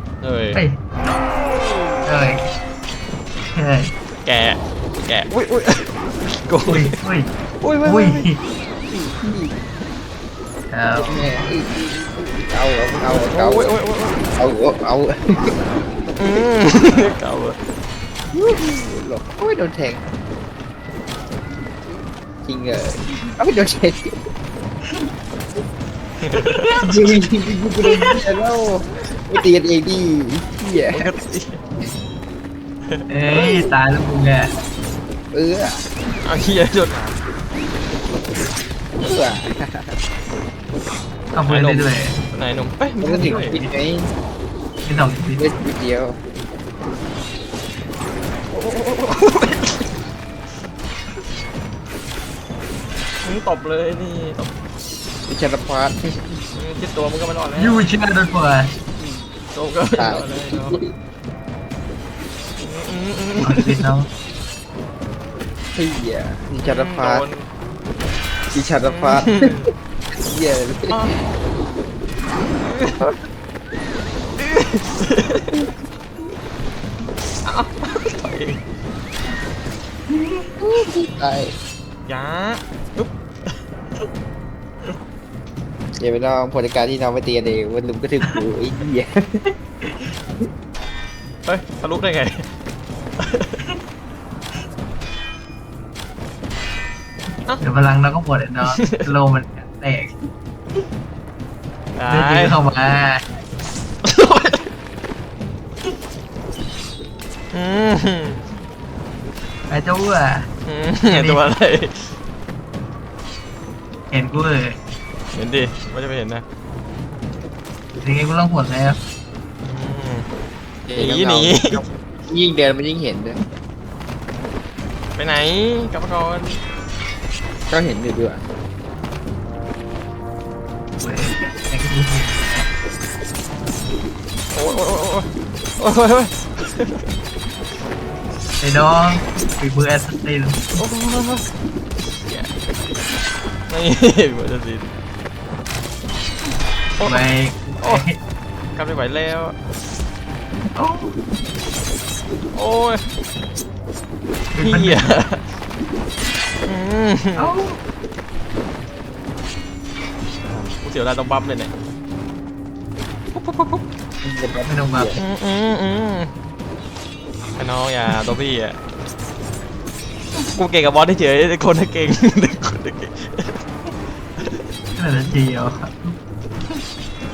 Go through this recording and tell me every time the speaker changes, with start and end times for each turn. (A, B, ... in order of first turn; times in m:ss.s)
0:00.2-0:00.6 A
0:02.1-0:02.4 B
0:03.6-0:03.9 B
0:04.2-0:07.0 A
0:06.7-0:07.3 B
0:07.6-0:08.3 A
0:07.8-0:08.4 B
0:09.0-0:09.6 C
0:10.7-0:11.4 B
0:11.0-0:13.8 C
0:13.1-0:14.2 A
0:14.4-0:15.5 C
0:16.2-0:17.6 A
0:18.3-0:20.1 C
0:22.4-0:24.1 C
0:26.2-0:26.8 A
0:26.8-0:31.1 C
0:30.9-0:31.6 A
0:32.9-0:33.5 A
0:33.1-0:34.4 B
0:35.3-0:35.8 C
0:36.2-0:37.2 A
0:39.0-0:40.0 C
0:41.4-0:42.1 B
0:41.5-0:43.6 A
0:43.0-0:44.1 C
0:43.2-0:43.7 B
0:44.9-0:45.4 B
0:45.3-0:46.2 C
0:48.5-0:49.9 A
0:53.2-0:54.5 A
0:55.3-0:56.4 C
0:56.5-0:57.8 A
0:57.6-0:58.7 B
0:59.1-1:00.8 A
0:59.9-1:00.8 C
1:02.6-1:03.8 A
1:03.4-1:04.1 B
1:05.8-1:07.3 C
1:06.6-1:07.5 A
1:08.5-1:09.4 C
1:08.9-1:09.7 A
1:10.3-1:11.1 C
1:12.6-1:13.0 A
1:14.4-1:15.6 A
1:17.4-1:18.6 A
1:20.1-1:20.5 B
1:20.6-1:21.5 C
1:22.1-1:23.1 A
1:26.0-1:29.2 C
1:31.4-1:32.5 A
1:33.2-1:33.6 A
1:37.6-1:40.2 B
1:38.6-1:39.1 A
1:42.0-1:42.6 A
1:42.1-1:43.2 B
1:44.0-1:44.7 A
1:47.5-1:48.4 A
1:49.7-1:50.5 B
1:50.7-1:52.1 A
1:51.1-1:51.4 B
1:54.1-1:54.8 B
1:55.3-1:56.4 A
1:58.0-1:59.0 B
1:59.6-2:00.3 A
2:00.9-2:03.4 C
2:01.0-2:01.8 A
2:05.2-2:06.6 A
2:07.7-2:08.4 C
2:11.0-2:12.7 B
2:14.5-2:17.0 A
2:18.6-2:20.8 B
2:20.8-2:21.5 A
2:22.1-2:22.6 A
2:23.7-2:24.9 A
2:27.0-2:27.3 A
2:27.0-2:28.2 B
2:28.8-2:29.6 A
2:30.8-2:31.2 B
2:32.5-2:33.0 A
2:34.6-2:35.1 B
2:34.6-2:35.5 A
2:36.7-2:37.6 A
2:37.4-2:37.8 B
2:40.8-2:41.7 A
2:43.3-2:43.8 A
2:44.2-2:45.2 C
2:44.7-2:45.2 B
2:45.2-2:46.3 A
2:47.6-2:48.8 A
2:50.4-2:53.6 A
2:55.0-2:56.2 B